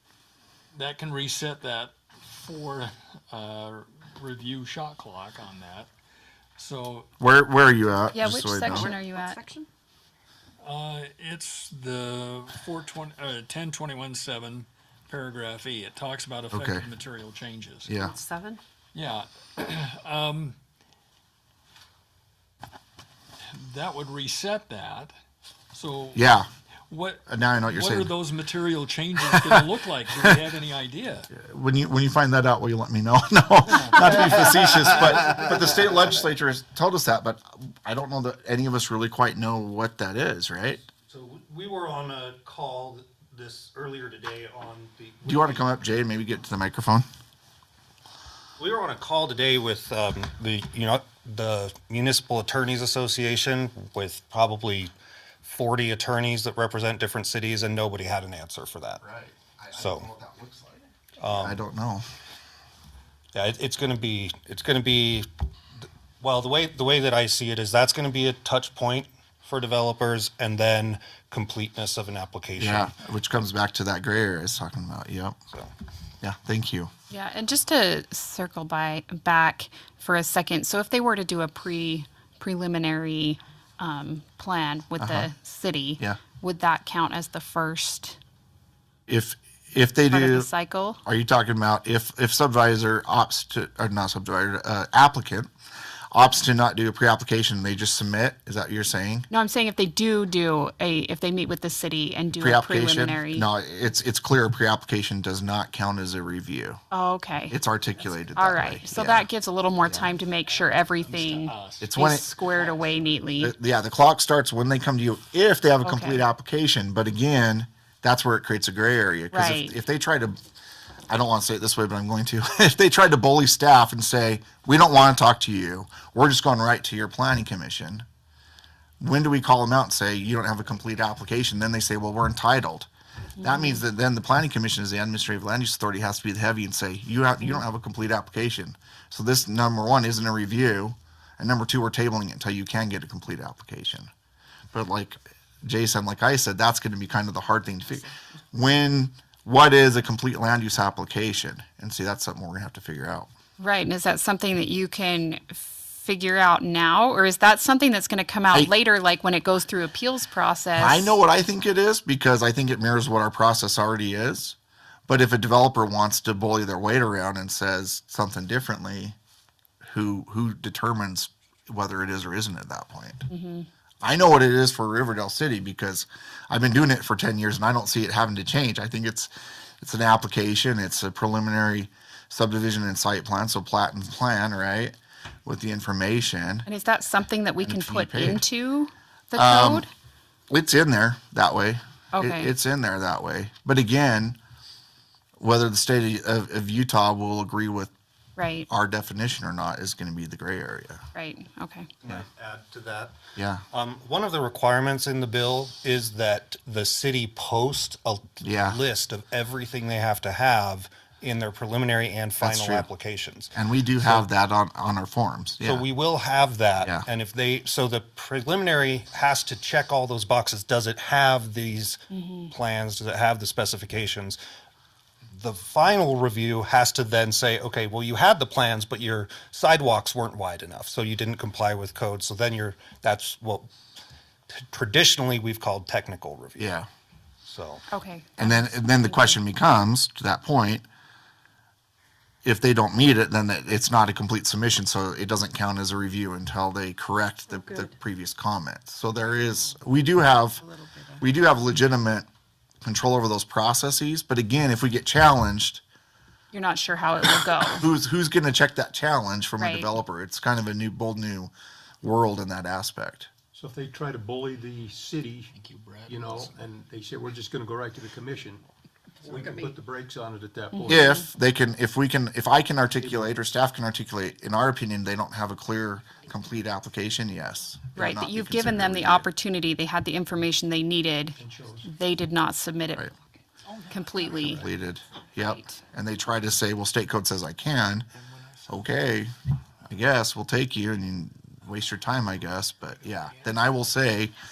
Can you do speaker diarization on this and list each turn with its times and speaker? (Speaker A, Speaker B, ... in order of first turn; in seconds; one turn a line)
Speaker A: 0.7-5.9
Speaker A: 6.6-7.1
Speaker B: 7.2-8.9
Speaker C: 8.1-9.4
Speaker D: 8.8-9.7
Speaker A: 10.6-17.9
Speaker B: 16.5-16.9
Speaker B: 17.9-18.1
Speaker D: 18.0-18.6
Speaker A: 18.9-20.6
Speaker A: 23.5-25.1
Speaker A: 25.7-26.2
Speaker B: 26.1-26.5
Speaker A: 26.9-31.3
Speaker B: 27.3-28.1
Speaker B: 31.3-40.9
Speaker E: 41.1-45.7
Speaker B: 45.2-47.1
Speaker E: 48.6-54.9
Speaker E: 55.4-59.0
Speaker B: 59.0-62.0
Speaker E: 59.7-60.1
Speaker E: 61.2-61.6
Speaker E: 63.3-65.3
Speaker E: 66.2-72.9
Speaker B: 72.6-75.4
Speaker B: 76.2-76.9
Speaker C: 77.1-88.2
Speaker B: 85.0-85.3
Speaker B: 89.1-90.5
Speaker C: 90.1-91.0
Speaker B: 91.0-95.5
Speaker B: 96.1-99.3
Speaker C: 99.3-103.5
Speaker B: 102.4-106.8
Speaker C: 106.9-107.5
Speaker B: 107.5-109.3
Speaker C: 108.3-113.5
Speaker A: 111.0-112.0
Speaker B: 111.8-112.3
Speaker B: 113.4-120.4
Speaker C: 115.8-116.2
Speaker C: 119.3-119.8
Speaker B: 121.1-128.1
Speaker B: 129.0-132.9
Speaker C: 133.4-133.8
Speaker B: 133.4-144.1
Speaker B: 144.7-153.3
Speaker C: 153.6-161.2
Speaker B: 160.8-164.6
Speaker B: 165.1-169.2
Speaker B: 169.9-173.3
Speaker C: 173.3-173.7
Speaker B: 174.0-186.7
Speaker C: 186.7-189.9
Speaker B: 187.6-188.4
Speaker B: 189.3-189.9
Speaker B: 190.5-194.4
Speaker C: 192.1-192.5
Speaker B: 195.4-197.9
Speaker C: 198.4-198.7
Speaker B: 198.7-201.0
Speaker C: 201.2-201.9
Speaker E: 202.0-203.2
Speaker B: 203.4-203.6
Speaker E: 203.7-214.3
Speaker B: 208.4-208.8
Speaker B: 212.4-212.9
Speaker B: 213.5-215.9
Speaker E: 215.6-224.4
Speaker C: 222.1-222.5
Speaker E: 225.3-233.7
Speaker E: 234.5-236.7
Speaker B: 236.6-236.9
Speaker E: 237.4-237.9
Speaker C: 237.9-239.3
Speaker B: 238.4-240.8
Speaker B: 242.4-250.6
Speaker D: 250.7-251.2
Speaker B: 251.2-252.3
Speaker B: 252.8-255.8
Speaker C: 256.5-257.8
Speaker B: 257.7-263.3
Speaker C: 259.6-259.9
Speaker F: 263.5-265.5
Speaker A: 265.5-266.5
Speaker F: 266.1-268.6
Speaker F: 269.2-271.2
Speaker C: 270.7-271.2
Speaker B: 270.9-279.3
Speaker F: 273.0-273.4
Speaker C: 277.9-283.1
Speaker F: 281.4-281.9
Speaker A: 283.7-284.4
Speaker C: 283.9-284.7
Speaker B: 284.4-288.1
Speaker C: 285.4-285.8
Speaker A: 288.1-289.1
Speaker B: 288.7-289.3
Speaker B: 289.9-294.3
Speaker A: 293.1-293.5